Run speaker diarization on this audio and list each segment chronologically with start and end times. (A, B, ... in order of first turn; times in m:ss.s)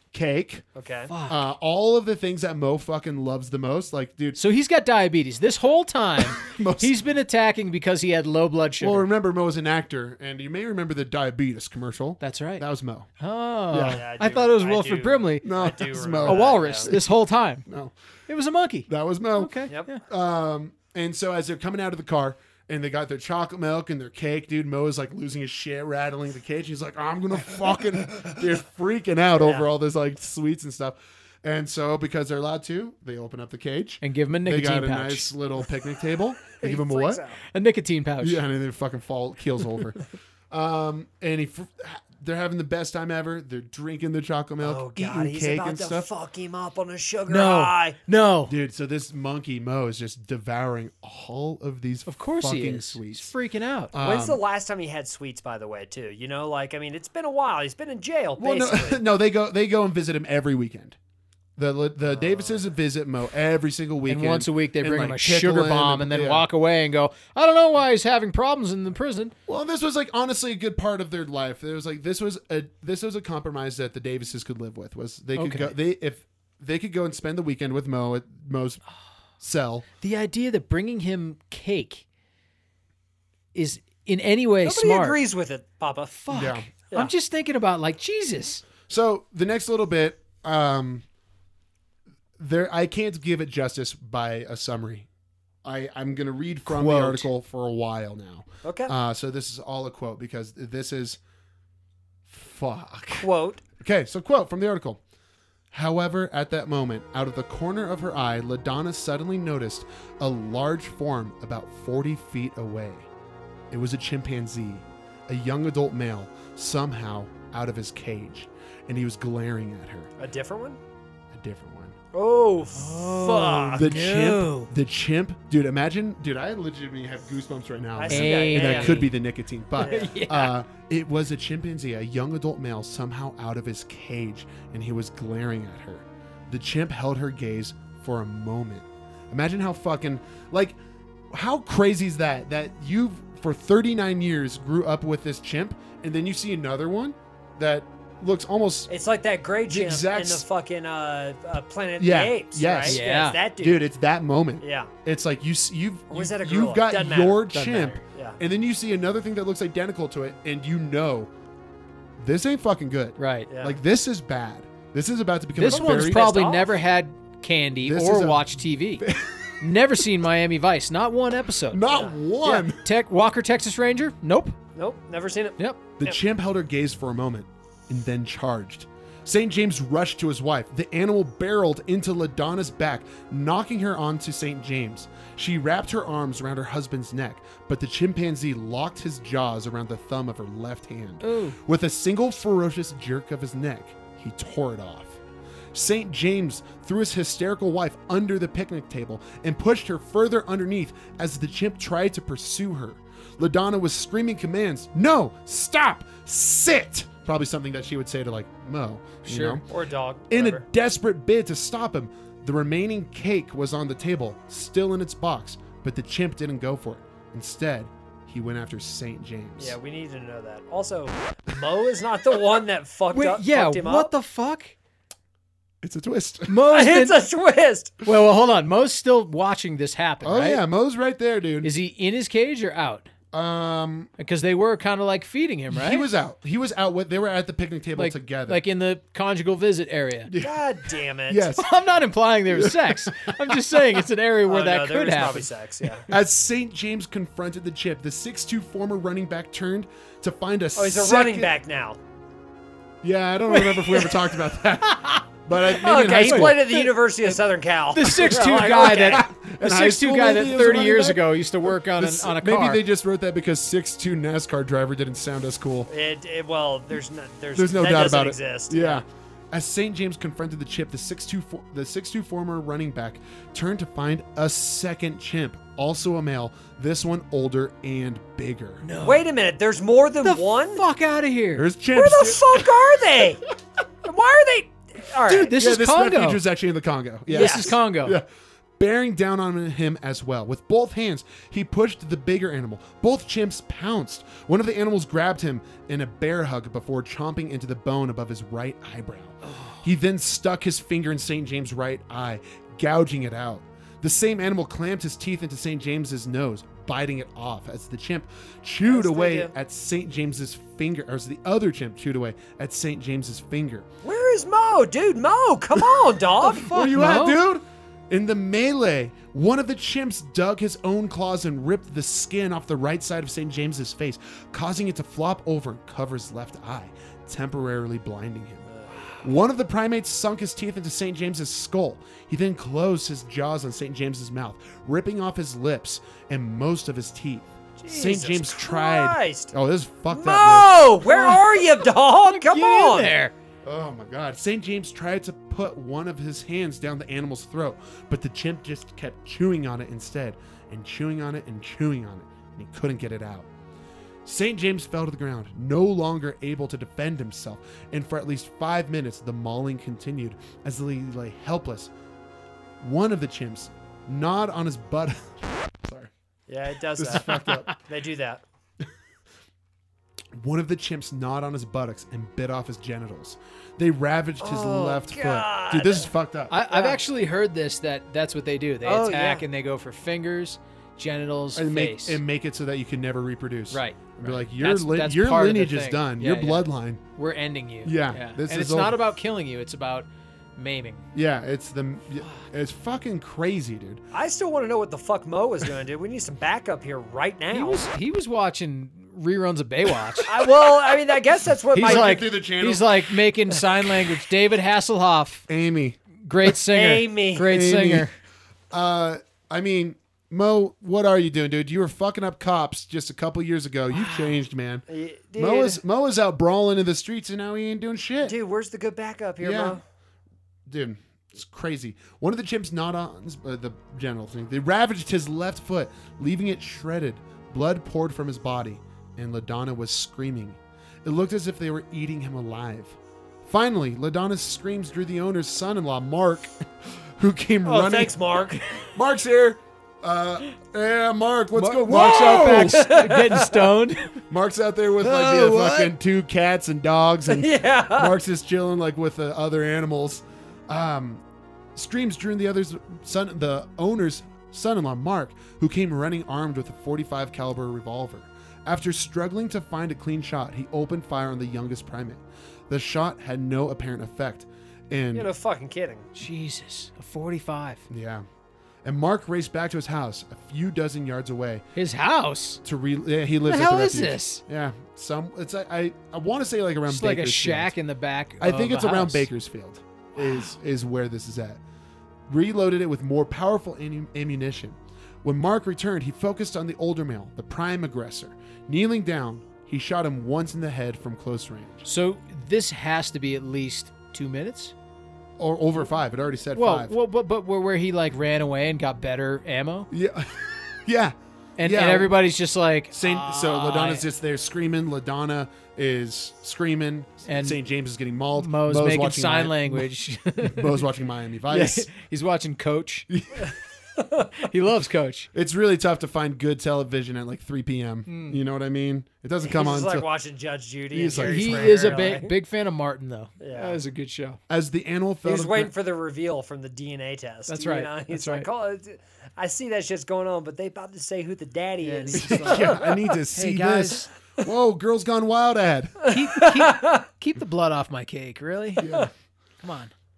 0:00.1-0:00.6 A
0:00.7-0:01.1 B
0:01.1-0:01.4 C
0:01.3-0:04.4 A
0:04.4-0:09.1 C
0:06.3-0:06.9 A
0:08.8-0:13.1 A
0:12.2-0:12.6 C
0:13.2-0:15.4 C
0:13.7-0:14.0 A
0:13.8-0:16.9 B
0:15.4-0:17.1 A
0:16.2-0:17.7 C
0:17.7-0:17.9 A
0:18.3-0:20.0 C
0:18.9-0:37.2 A
0:29.4-0:29.7 B
0:34.0-0:35.3 C
0:36.6-0:37.4 B
0:37.5-0:38.4 C
0:38.2-0:46.1 A
0:44.6-0:48.0 B
0:47.3-0:48.5 C
0:48.5-0:53.3 A
0:52.1-0:53.9 C
0:53.9-0:54.4 A
0:54.0-0:59.0 B
0:58.4-1:01.0 A
1:01.6-1:06.5 A
1:02.1-1:02.6 B
1:04.1-1:09.3 C
1:09.5-1:18.8 A
1:15.4-1:15.7 C
1:19.4-1:19.8 A
1:20.0-1:22.0 C
1:23.5-1:25.2 C
1:24.6-1:26.2 B
1:26.2-1:28.6 C
1:26.3-1:26.7 A
1:28.9-1:31.0 A
1:32.4-1:35.1 A
1:35.6-1:41.2 A
1:36.6-1:37.3 C
1:38.6-1:38.9 B
1:42.3-1:43.3 A
1:43.2-1:43.6 B
1:43.8-1:45.0 A
1:45.7-1:53.1 A
1:53.7-2:00.1 A
2:00.2-2:00.8 B
2:01.3-2:02.0 A
2:02.1-2:03.9 B
2:02.7-2:04.7 C
2:03.7-2:20.8 A
2:08.0-2:09.0 B
2:08.1-2:09.1 C
2:09.8-2:10.6 C
2:09.8-2:10.1 B
2:21.3-2:28.9 A
2:28.9-2:33.8 B
2:29.7-2:30.4 A
2:32.0-2:33.0 A
2:32.8-2:33.4 C
2:33.6-2:41.3 A
2:34.6-2:34.9 B
2:36.1-2:38.4 B
2:37.5-2:38.0 C
2:42.2-2:46.2 A
2:43.2-2:43.5 C
2:43.5-2:43.8 B
2:45.6-2:49.1 C
2:45.7-2:46.8 B
2:47.8-2:49.7 A
2:49.6-2:51.8 C
2:51.7-2:52.8 A
2:51.9-2:52.5 B
2:52.4-2:54.6 C
2:54.7-2:56.2 B
2:56.0-3:15.2 A
3:11.2-3:11.6 C
3:15.7-3:29.6 A
3:29.2-3:29.6 C
3:29.7-3:30.6 B
3:30.3-3:39.8 A
3:39.6-3:44.1 B
3:43.1-3:44.7 C
3:45.8-3:46.6 A
3:46.5-3:47.2 C
3:46.6-3:47.9 B
3:48.0-3:50.6 C
3:50.2-3:51.7 A
3:51.6-3:53.1 C
3:53.3-3:54.1 A
3:54.2-3:56.1 C
3:55.7-3:58.6 A
3:58.0-4:00.3 C
4:00.3-4:00.7 A
4:00.4-4:01.5 B
4:01.3-4:01.7 A
4:01.6-4:05.9 C
4:02.5-4:04.0 A
4:04.5-4:06.0 B
4:06.1-4:11.5 A
4:10.8-4:12.0 B
4:13.0-4:16.6 A
4:13.5-4:15.2 C
4:15.7-4:19.2 B
4:16.0-4:17.4 C
4:17.9-4:22.8 C
4:18.1-4:25.9 A
4:25.9-4:29.0 B
4:27.5-4:38.8 A
4:38.8-4:39.3 C
4:39.0-4:40.8 B
4:40.2-4:41.6 C
4:41.6-4:42.7 A
4:41.9-4:43.4 B
4:44.0-4:45.5 B
4:45.3-4:46.4 C
4:45.5-4:48.2 A
4:47.3-4:48.2 C
4:47.3-4:47.7 B
4:48.8-5:13.8 A
4:59.5-4:59.8 C
5:08.8-5:09.5 B
5:14.0-5:16.7 B
5:16.4-5:40.7 A
5:16.5-5:17.4 C
5:28.7-5:29.2 B
5:37.8-5:39.5 B
5:40.1-5:43.1 B
5:41.0-5:43.3 C
5:43.6-5:53.5 A
5:54.2-6:01.9 A
6:02.8-6:06.1 A
6:06.5-6:08.4 B
6:07.0-6:07.7 A
6:07.2-6:07.7 C
6:10.3-6:16.6 A
6:14.4-6:16.1 B
6:16.5-6:22.2 C
6:16.7-6:17.0 B
6:18.8-6:19.4 B
6:21.5-6:27.0 A
6:23.7-6:31.0 C
6:27.8-6:29.0 A
6:31.1-6:34.0 A
6:34.1-6:37.9 B
6:37.5-6:40.8 C
6:40.2-6:42.3 B
6:41.7-6:45.4 C
6:41.8-6:43.2 A
6:45.5-6:46.0 A
6:46.2-6:48.1 C
6:46.6-6:47.5 B
6:47.4-6:48.1 A
6:48.7-6:54.8 A
6:53.9-6:54.4 C
6:54.9-6:55.8 B
6:55.4-6:58.4 A
6:58.2-6:59.8 B
6:59.4-6:59.8 A
7:00.6-7:18.2 A
7:17.6-7:18.6 B
7:18.8-7:23.2 A
7:21.5-7:24.2 C
7:21.9-7:23.7 B
7:24.3-7:31.2 A
7:25.0-7:25.9 C
7:27.3-7:28.1 B
7:31.7-7:45.3 A
7:45.1-7:46.1 B
7:46.2-7:47.8 C
7:47.9-7:48.2 A
7:48.8-7:51.6 A
7:51.8-7:52.6 C
7:52.6-7:57.7 A
7:53.4-7:54.4 C
7:56.9-7:59.3 C
7:58.4-8:01.6 A
8:00.2-8:00.5 C
8:02.3-8:11.8 A
8:11.8-8:14.7 C
8:15.4-8:16.9 A
8:16.5-8:19.9 C
8:19.9-8:22.2 A
8:21.6-8:24.0 C
8:22.9-8:29.9 A
8:27.3-8:27.6 C
8:28.3-8:30.9 C
8:30.4-8:31.9 A
8:31.5-8:33.1 C
8:33.1-8:33.5 A
8:33.4-8:34.3 B
8:34.4-8:35.3 C
8:35.3-8:40.1 A
8:38.1-8:38.4 C
8:39.4-8:42.3 B
8:40.9-8:42.0 A
8:41.2-8:44.4 C
8:43.4-8:43.8 B
8:44.5-8:45.7 A
8:45.2-8:53.0 B
8:47.5-8:48.5 C
8:51.8-8:54.1 C
8:52.1-8:56.1 A
8:56.0-8:57.0 B
8:56.1-8:58.9 C
8:58.8-8:59.1 A
8:59.6-8:59.9 C